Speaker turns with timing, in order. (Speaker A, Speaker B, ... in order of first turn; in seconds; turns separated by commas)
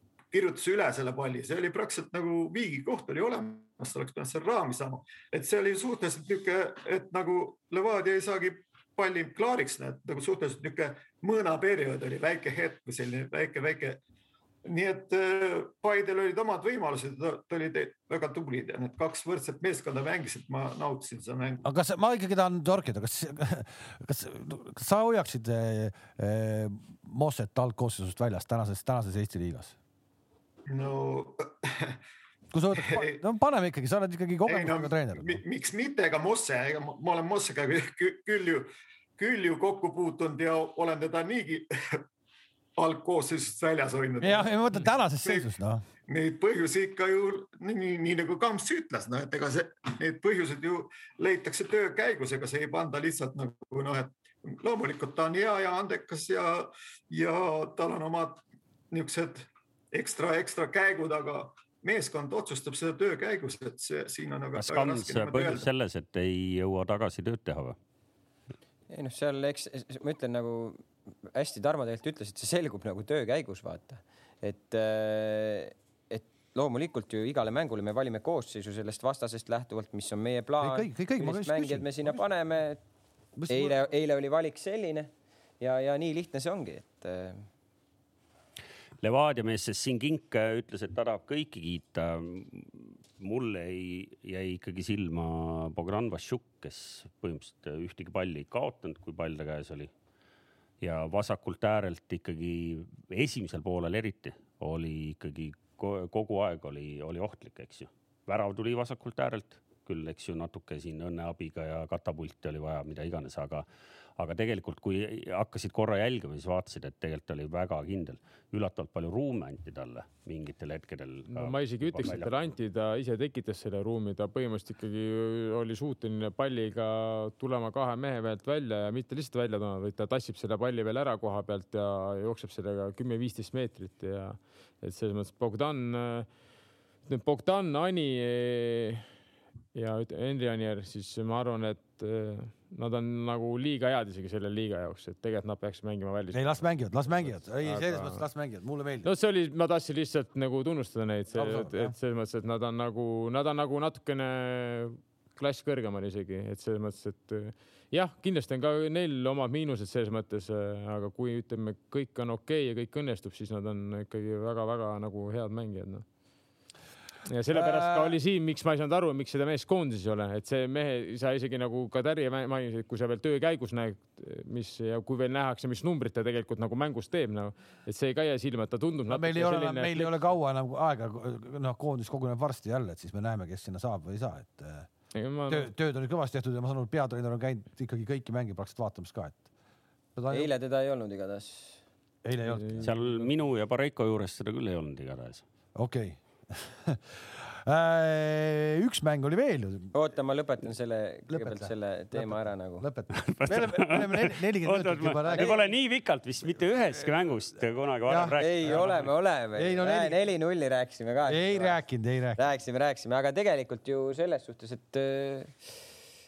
Speaker A: 0.3-14.0, Speaker A: 14.7-21.6, Speaker B: 21.6-29.8, Speaker A: 30.7-32.0, Speaker B: 32.5-35.4, Speaker A: 32.7-33.2, Speaker A: 34.5-38.7, Speaker A: 39.2-42.0, Speaker A: 42.8-44.5, Speaker B: 44.2-45.8, Speaker A: 45.2-45.5, Speaker A: 46.1-65.7, Speaker C: 64.5-67.8, Speaker D: 68.9-82.8, Speaker B: 80.6-82.2, Speaker B: 83.4-83.7, Speaker D: 83.5-85.1, Speaker D: 85.6-87.4, Speaker C: 89.0-99.9, Speaker C: 100.8-113.6, Speaker C: 114.2-122.5, Speaker E: 121.3-136.3, Speaker E: 137.0-139.1, Speaker E: 139.7-148.2, Speaker B: 146.3-149.1, Speaker E: 149.0-166.0, Speaker B: 151.3-151.9, Speaker E: 167.2-180.3, Speaker B: 167.5-168.2, Speaker B: 179.1-184.9, Speaker E: 185.1-185.7, Speaker B: 185.5-189.4, Speaker B: 190.2-190.5, Speaker D: 190.3-191.8, Speaker B: 192.2-192.9, Speaker E: 192.5-193.1, Speaker C: 192.8-195.4, Speaker B: 195.7-199.9, Speaker D: 199.9-202.8, Speaker B: 201.3-205.6, Speaker C: 203.1-209.1, Speaker D: 205.3-205.6, Speaker B: 208.1-208.8, Speaker D: 208.4-211.8, Speaker B: 209.6-210.2, Speaker B: 211.3-212.4, Speaker D: 212.4-215.8